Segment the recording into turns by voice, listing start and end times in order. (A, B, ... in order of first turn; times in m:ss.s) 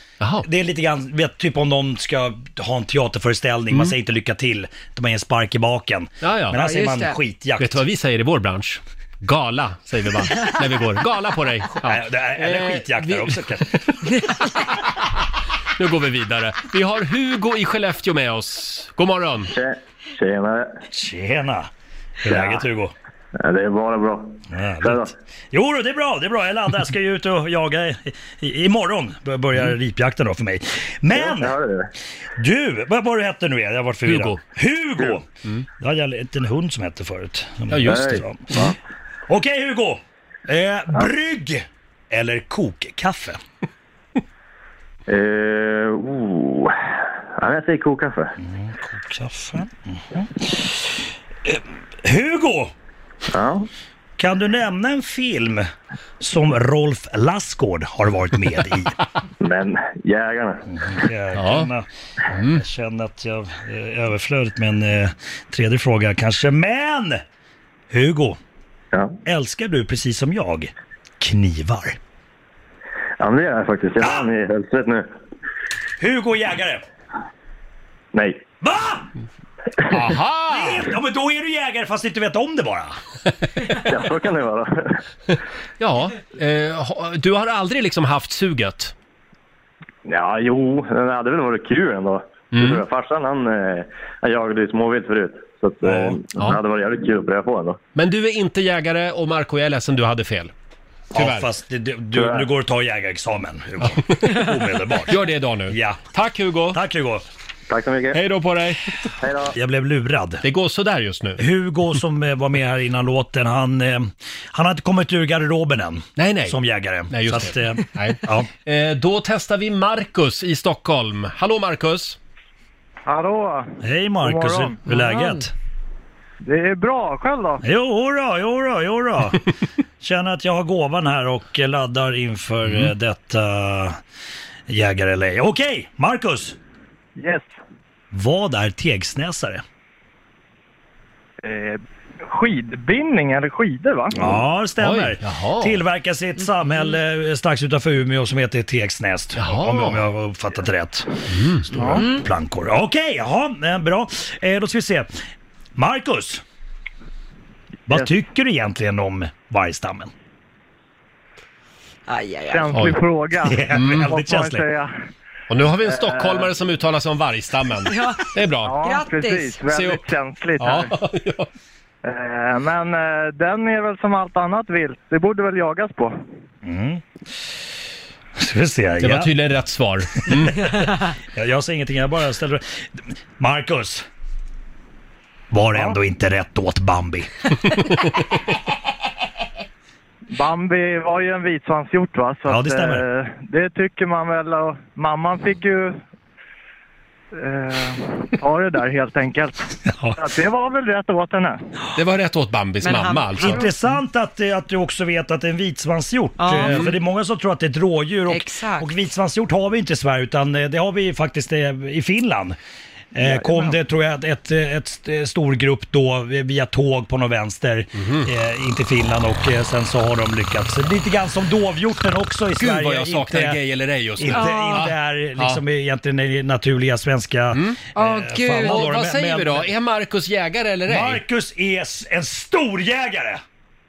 0:00.2-0:00.4 A
0:00.4-0:07.8 B
0:06.2-0:06.6 A
0:06.5-0:07.2 C
0:07.6-0:13.4 A
0:11.8-0:13.9 B
0:15.8-0:19.5 A
0:19.5-0:20.7 D
0:20.9-0:21.7 B
0:22.2-0:22.9 B
0:22.3-0:22.6 D
0:23.4-0:25.1 D
0:24.5-0:31.5 B
0:31.1-0:31.9 D
0:32.4-0:35.2 B
0:34.0-0:34.4 A
0:35.8-0:38.5 B
0:37.7-0:38.7 A
0:37.9-0:38.7 D
0:39.3-0:43.4 B
0:45.1-0:46.7 D
0:47.4-0:48.3 D
0:48.4-0:50.9 B
0:51.4-0:52.7 B
0:53.3-0:53.6 D
0:54.2-0:55.7 B
0:56.2-0:58.9 B
0:59.4-1:00.6 D
1:00.7-1:07.2 B
1:01.4-1:01.7 A
1:02.3-1:02.6 A
1:07.9-1:08.4 B
1:09.2-1:12.0 B
1:13.2-1:15.1 D
1:14.0-1:14.3 B
1:16.0-1:16.8 B
1:18.1-1:18.4 D
1:18.6-1:19.1 B
1:19.8-1:20.8 A
1:20.5-1:23.0 B
1:23.8-1:25.0 D
1:25.8-1:28.9 A
1:30.1-1:37.8 D
1:32.5-1:32.8 A
1:35.8-1:36.2 B
1:36.4-1:36.6 A
1:37.9-1:40.5 A
1:41.1-1:45.2 B
1:41.1-1:41.5 A
1:42.1-1:42.5 D
1:45.1-1:46.8 A
1:45.7-1:46.0 B
1:46.7-1:47.2 B
1:47.7-1:48.2 D
1:48.1-1:48.9 A
1:49.2-1:49.5 D
1:49.5-1:50.4 B
1:50.4-1:51.4 A
1:51.4-1:58.5 B
1:56.2-1:56.6 A
1:57.1-2:02.2 A
2:03.1-2:03.7 E
2:03.8-2:05.5 B
2:04.2-2:04.8 E
2:04.9-2:05.2 A
2:06.4-2:07.6 E
2:07.6-2:09.4 B
2:10.0-2:14.0 B
2:14.7-2:16.6 B
2:17.2-2:17.5 E
2:18.1-2:19.6 B
2:21.4-2:24.2 E
2:24.1-2:35.1 B
2:24.8-2:25.8 A
2:29.4-2:30.0 A
2:31.3-2:31.6 A
2:35.8-2:36.4 B
2:37.9-2:40.1 B
2:42.1-2:42.8 C
2:42.4-2:44.9 E
2:43.4-2:44.7 B
2:43.7-2:44.1 A
2:45.5-2:48.8 A
2:45.8-2:46.5 E
2:47.8-2:48.2 C
2:48.6-2:50.9 E
2:48.8-2:49.6 C
2:49.6-2:51.5 A
2:52.0-2:56.1 E
2:56.6-2:57.0 B
2:58.4-2:59.3 B
2:59.0-3:00.7 A
3:00.2-3:04.1 B
3:05.5-3:07.3 B
3:10.3-3:16.0 E
3:12.5-3:13.0 B
3:17.4-3:19.6 E
3:19.9-3:20.2 B
3:20.2-3:21.6 E
3:21.9-3:23.6 A
3:22.8-3:23.7 C
3:23.4-3:32.6 B
3:26.4-3:26.9 C
3:28.3-3:28.9 C
3:33.1-3:43.6 B
3:38.0-3:38.3 A
3:42.6-3:45.6 A
3:44.2-3:49.7 B
3:44.3-3:44.7 C
3:47.5-3:47.9 A
3:48.0-3:48.8 C
3:48.5-3:51.2 A
3:50.9-3:53.4 B